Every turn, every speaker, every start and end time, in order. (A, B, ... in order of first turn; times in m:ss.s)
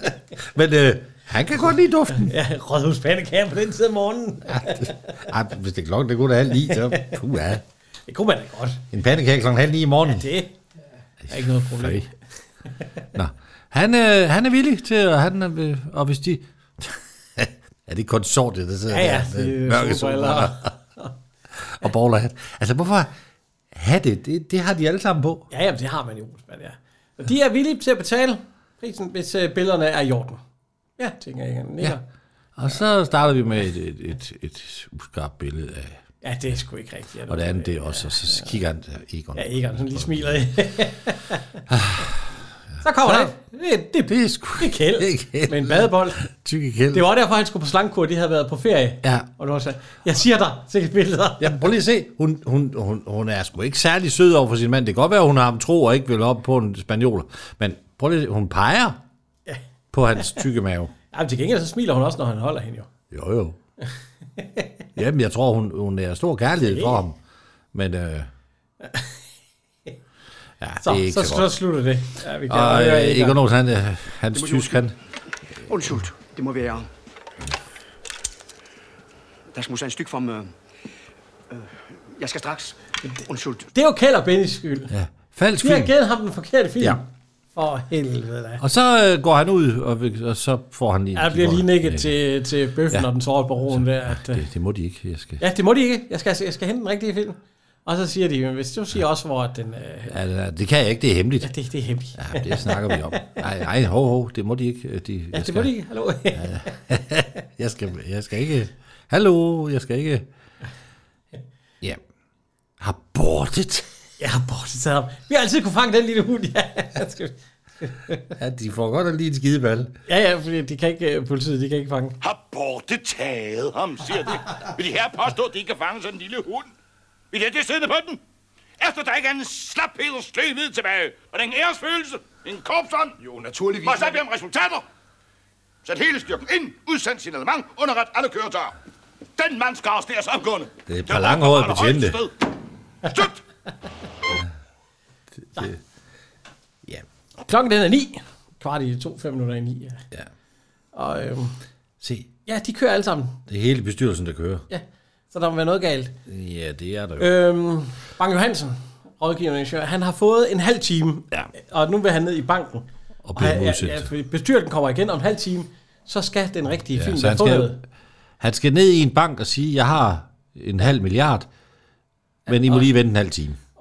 0:00.4-0:02.3 A
0:02.1-0:05.1 B
0:04.5-0:07.6 A
0:06.7-0:07.1 B
0:08.1-0:08.8 B
0:08.9-0:10.3 A
0:10.0-0:10.5 B
0:11.2-0:12.1 A
0:11.3-0:12.1 B
0:13.1-0:20.7 A
0:18.9-0:21.1 B
0:21.6-0:23.1 A
0:23.7-0:25.4 A
0:25.5-0:30.4 B
0:31.0-0:32.0 B
0:32.6-0:36.0 A
0:36.2-0:38.5 B
0:37.3-0:40.4 A
0:39.3-0:41.6 B
0:41.7-0:42.3 A
0:42.8-0:46.2 B
0:43.0-0:43.3 A
0:44.0-0:47.1 A
0:46.9-0:51.6 B
0:49.0-0:49.3 A
0:51.4-0:59.0 A
0:59.9-1:00.9 A
1:01.1-1:02.9 B
1:03.1-1:03.6 A
1:04.4-1:04.7 B
1:05.0-1:07.2 A
1:06.6-1:07.0 B
1:07.7-1:08.3 A
1:08.8-1:09.1 B
1:10.6-1:11.5 A
1:10.8-1:13.4 B
1:12.5-1:14.9 A
1:14.3-1:14.8 C
1:15.7-1:16.9 C
1:19.5-1:20.5 C
1:21.5-1:23.7 C
1:23.7-1:24.9 B
1:24.9-1:25.9 A
1:25.6-1:28.6 B
1:28.6-1:32.1 A
1:31.1-1:34.4 B
1:33.7-1:35.4 A
1:35.4-1:40.2 B
1:40.1-1:41.5 A
1:41.4-1:43.4 B
1:42.2-1:45.7 A
1:45.3-1:46.7 B
1:46.3-1:50.2 A
1:52.8-1:53.9 A
1:54.2-1:58.3 B
1:58.4-1:59.9 A
2:00.1-2:02.2 B
2:02.2-2:06.7 D
2:07.3-2:08.2 D
2:08.8-2:13.2 D
2:13.8-2:14.8 D
2:15.8-2:18.7 D
2:19.4-2:22.3 D
2:20.9-2:22.2 A
2:23.0-2:23.4 D
2:25.5-2:25.8 A
2:27.4-2:30.0 B
2:30.9-2:31.6 B
2:32.0-2:32.3 A
2:32.5-2:33.4 B
2:33.5-2:34.6 A
2:34.7-2:36.1 B
2:36.2-2:37.3 A
2:37.2-2:47.8 B
2:43.2-2:44.1 A
2:46.9-2:47.8 A
2:48.4-2:51.5 A
2:52.5-2:53.6 A
2:52.5-2:52.9 B